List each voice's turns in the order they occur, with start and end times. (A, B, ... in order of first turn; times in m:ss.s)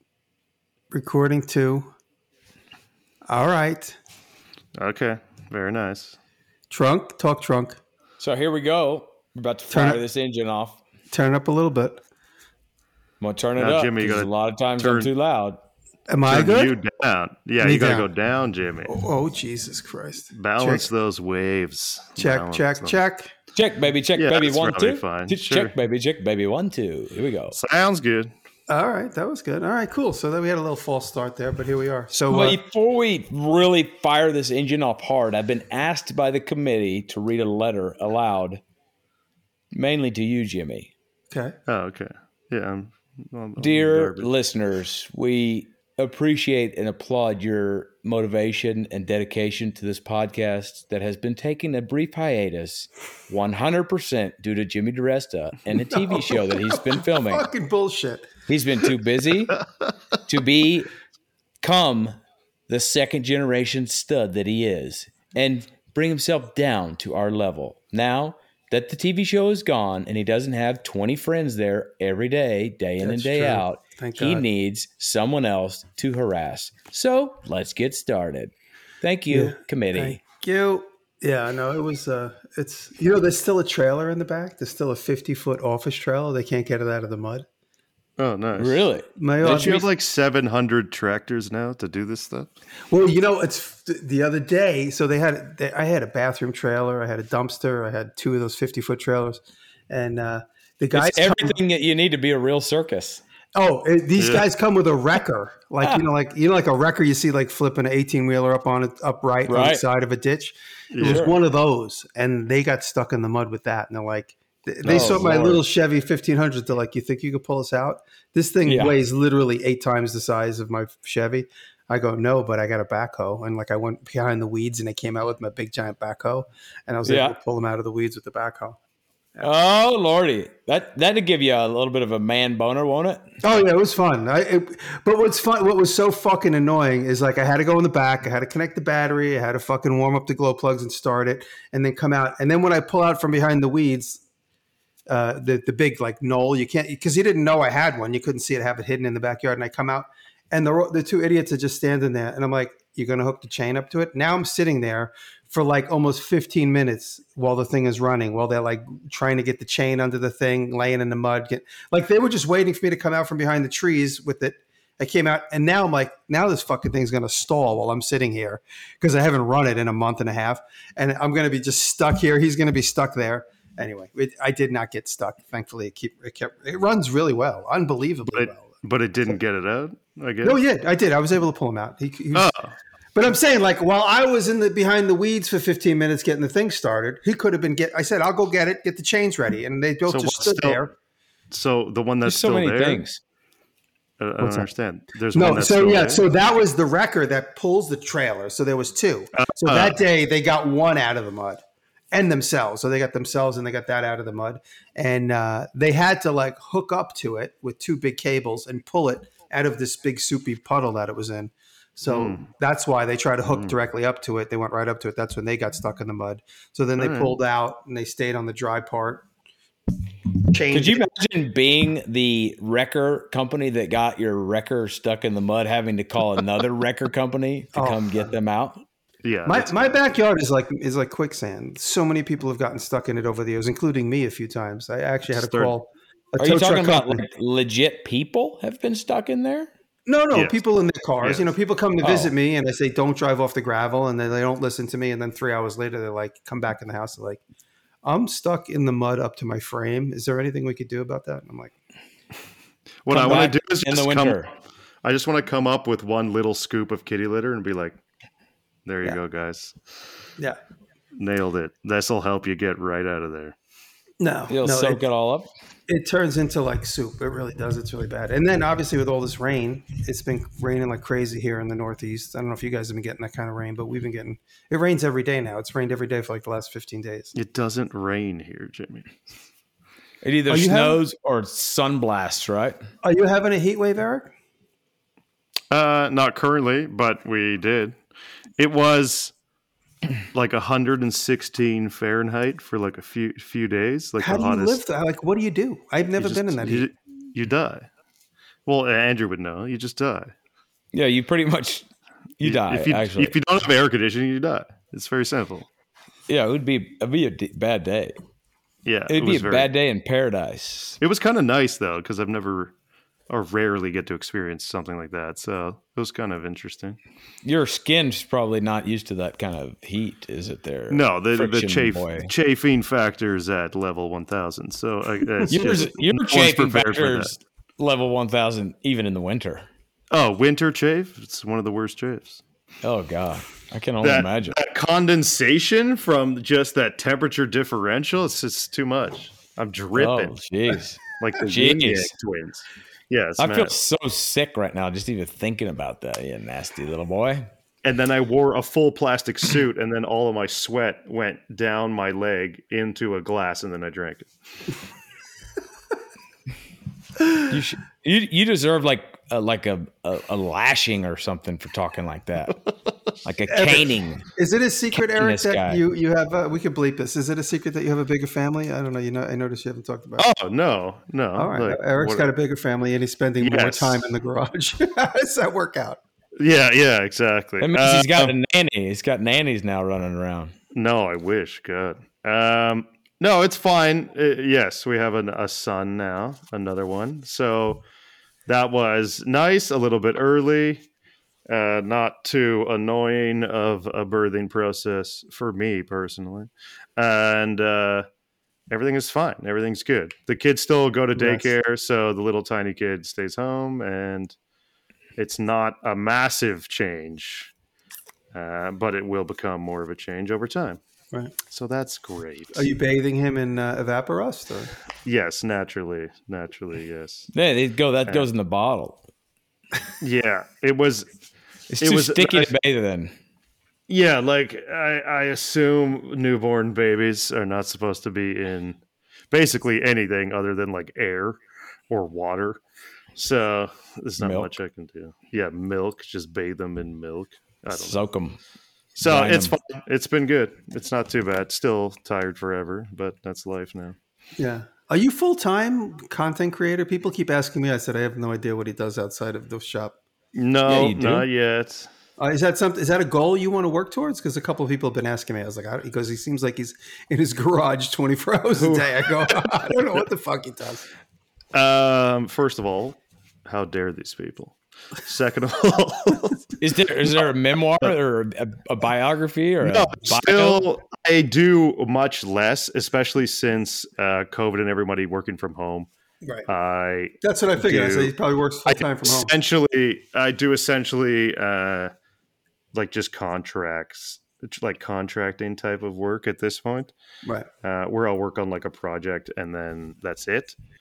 0:00.9-0:01.9 A
0:03.3-0:04.0 A
0:04.8-0:06.2 B
0:06.7-0:07.8 A
0:08.2-0:10.8 C
0:09.7-0:10.0 A
0:11.1-0:12.0 A
0:13.2-0:15.6 C
0:13.6-0:15.1 B
0:16.1-0:16.8 A
0:16.3-0:19.0 B
0:17.6-0:18.1 A
0:18.9-0:20.9 A
0:20.3-0:23.0 B
0:22.2-0:23.3 A
0:23.6-0:27.6 C
0:24.2-0:25.7 B
0:27.5-0:28.3 B
0:28.7-0:32.6 A
0:32.3-0:38.6 C
0:39.7-0:40.9 C
0:41.3-0:41.6 A
0:41.7-0:44.3 B
0:43.6-0:57.5 C
0:55.9-0:58.3 A
0:58.5-0:59.6 C
1:00.3-1:00.9 C
1:01.6-1:02.2 C
1:02.7-1:20.2 C
1:13.0-1:14.5 A
1:19.3-1:27.5 A
1:28.2-1:28.8 B
1:28.6-1:29.1 C
1:29.2-1:29.9 A
1:29.4-1:32.5 B
1:32.9-1:41.6 A
1:40.9-1:43.2 C
1:43.6-2:08.8 A
1:44.2-1:44.5 B
1:49.5-1:49.8 C
1:50.9-1:51.3 B
1:51.0-1:51.4 C
1:54.8-1:55.6 C
1:58.6-1:59.0 C
2:07.1-2:07.4 C
2:09.4-2:13.2 C
2:13.4-2:24.2 A
2:25.1-2:58.8 A
2:58.3-3:00.6 B
3:00.4-3:02.5 A
3:02.3-3:02.7 B
3:03.2-3:10.9 A
3:10.1-3:10.9 B
3:11.5-3:13.0 B
3:12.2-3:13.2 C
3:14.2-3:16.2 B
3:14.4-3:14.7 A
3:15.3-3:39.3 A
3:19.4-3:20.0 B
3:32.1-3:32.4 B
3:37.0-3:37.4 B
3:40.5-3:41.1 A
3:40.7-3:48.8 C
3:47.7-3:48.3 A
3:49.2-3:50.0 B
3:49.4-3:57.3 A
3:55.3-3:55.7 B
3:56.4-3:59.7 C
4:00.1-4:07.4 A
4:00.3-4:00.6 B
4:01.2-4:01.5 B
4:02.0-4:02.3 C
4:08.0-4:11.7 A
4:13.0-4:14.5 B
4:13.1-4:14.5 C
4:15.0-4:18.0 B
4:18.9-4:19.8 B
4:21.2-4:23.6 B
4:24.2-4:25.0 A
4:24.5-4:25.5 C
4:25.9-4:37.4 A
4:37.4-4:39.1 B
4:40.2-4:42.8 C
4:40.5-4:41.0 A
4:43.0-4:44.3 A
4:45.7-4:48.0 B
4:48.6-4:49.3 B
4:50.3-4:54.8 B
4:54.2-4:56.9 A
4:56.2-4:57.9 B
4:58.7-5:00.3 B
5:00.9-5:01.9 C
5:02.4-5:03.3 C
5:02.4-5:05.7 B
5:06.3-5:08.2 C
5:08.8-5:09.7 B
5:09.1-5:11.0 C
5:11.0-5:12.7 B
5:13.3-5:17.0 B
5:17.4-5:22.3 C
5:20.9-5:27.3 B
5:25.5-5:29.7 C
5:30.1-5:32.4 B
5:32.8-5:34.6 C
5:34.0-5:40.3 B
5:40.0-5:42.1 C
5:41.2-5:43.7 B
5:43.4-5:47.5 C
5:47.8-5:54.3 B
5:57.5-6:02.6 C
6:03.2-6:04.2 C
6:03.5-6:10.3 A
6:05.1-6:05.8 C
6:10.2-6:12.3 B
6:11.4-6:16.0 A
6:13.4-6:14.0 B
6:16.4-6:18.3 B
6:17.6-6:20.5 C
6:20.7-6:27.8 B
6:28.5-6:30.8 B
6:31.5-6:38.1 B
6:38.7-6:44.4 B
6:41.2-6:41.5 A
6:45.2-6:47.5 B
6:48.3-6:50.8 B
6:51.5-6:52.7 B
6:52.5-6:54.7 A
6:55.0-6:57.3 B
6:57.3-6:59.0 C
7:00.0-7:01.1 B
7:01.7-7:03.1 C
7:01.8-7:02.5 B
7:03.9-7:08.8 B
7:09.3-7:11.4 B
7:11.9-7:12.6 B
7:13.2-7:18.0 B
7:14.2-7:14.5 C
7:17.7-7:18.4 C
7:19.0-7:24.0 B
7:19.0-7:19.5 C
7:24.4-7:30.0 A
7:30.3-7:31.9 B
7:30.7-7:31.3 C
7:32.2-7:40.9 A
7:38.6-7:39.8 B
7:41.5-7:46.6 B
7:46.6-7:50.6 C
7:49.6-7:55.9 B
7:56.5-7:58.1 B
7:57.2-7:59.3 A
7:58.7-8:01.9 B
8:02.7-8:06.9 B
8:07.6-8:10.6 B